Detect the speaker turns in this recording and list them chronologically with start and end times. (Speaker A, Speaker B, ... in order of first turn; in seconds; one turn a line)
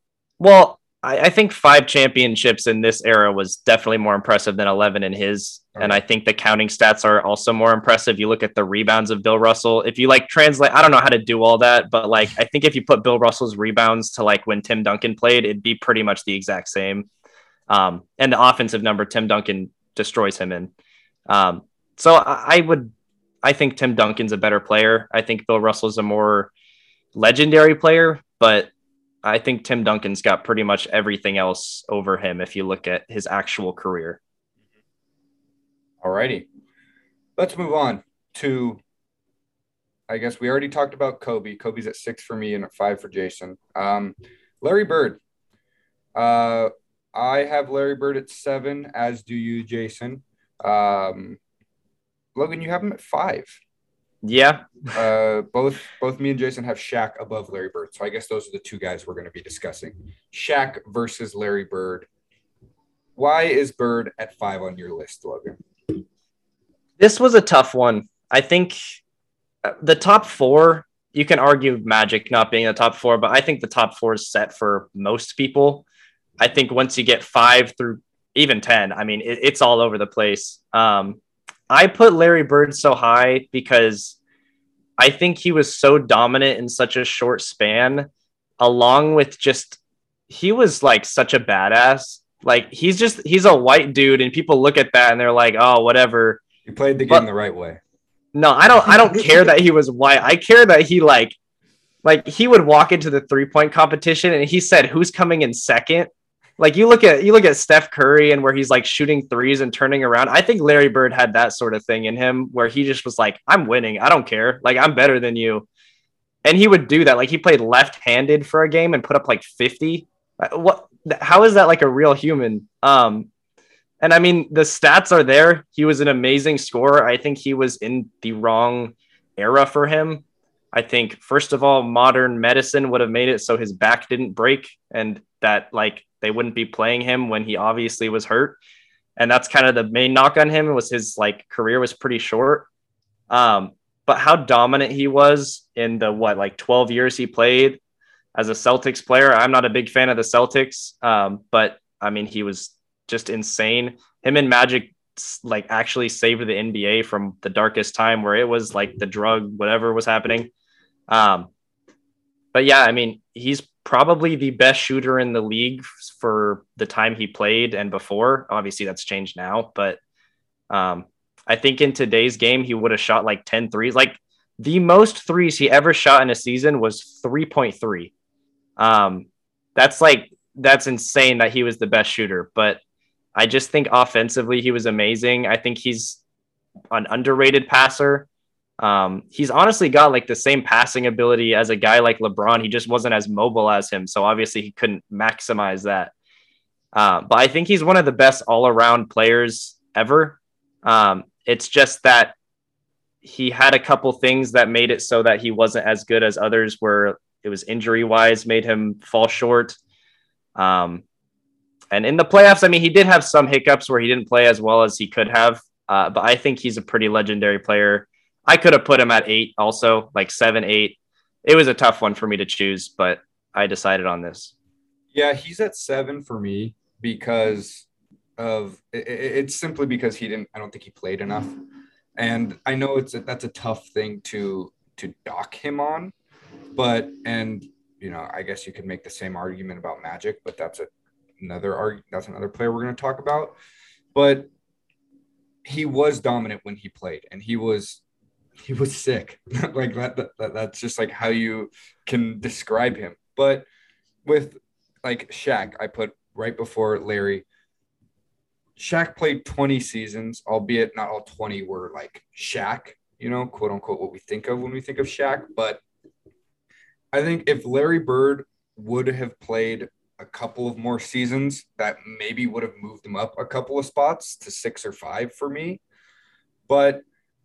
Speaker A: 0.4-17.1
Speaker B: 5.8-6.0
Speaker A: 17.7-20.7
Speaker A: 21.3-26.5
Speaker A: 27.1-28.7
Speaker A: 29.2-34.2
Speaker B: 36.0-36.5
Speaker B: 37.4-38.8
Speaker B: 40.1-45.2
Speaker B: 46.1-51.4
Speaker B: 52.3-53.6
Speaker A: 54.2-55.0
Speaker B: 54.9-62.1
Speaker B: 63.1-65.6
Speaker A: 67.0-68.8
Speaker A: 69.6-75.8
Speaker A: 76.4-81.2
Speaker A: 81.7-84.2
Speaker A: 85.0-88.1
Speaker A: 88.6-89.8
Speaker A: 90.3-96.4
Speaker B: 96.7-97.8
Speaker A: 98.3-101.3
Speaker B: 98.8-99.5
Speaker A: 102.0-115.7
Speaker A: 116.4-123.3
Speaker A: 124.0-138.6
Speaker A: 139.2-142.7
Speaker A: 143.3-147.8
Speaker A: 148.3-160.5
Speaker A: 161.1-161.5
Speaker A: 162.5-170.0
Speaker A: 170.7-178.1
Speaker A: 178.8-182.8
Speaker A: 183.3-186.2
Speaker A: 186.9-188.3
Speaker A: 188.8-196.1
Speaker A: 196.9-202.3
Speaker A: 203.2-209.8
Speaker A: 210.6-211.0
Speaker A: 211.9-224.5
Speaker B: 225.1-227.9
Speaker B: 228.4-231.6
Speaker B: 232.2-236.1
Speaker B: 236.7-243.5
Speaker B: 244.1-244.5
Speaker B: 245.6-248.0
Speaker B: 248.6-253.7
Speaker B: 254.2-257.4
Speaker B: 258.8-265.8
Speaker B: 267.1-275.8
Speaker B: 276.7-277.0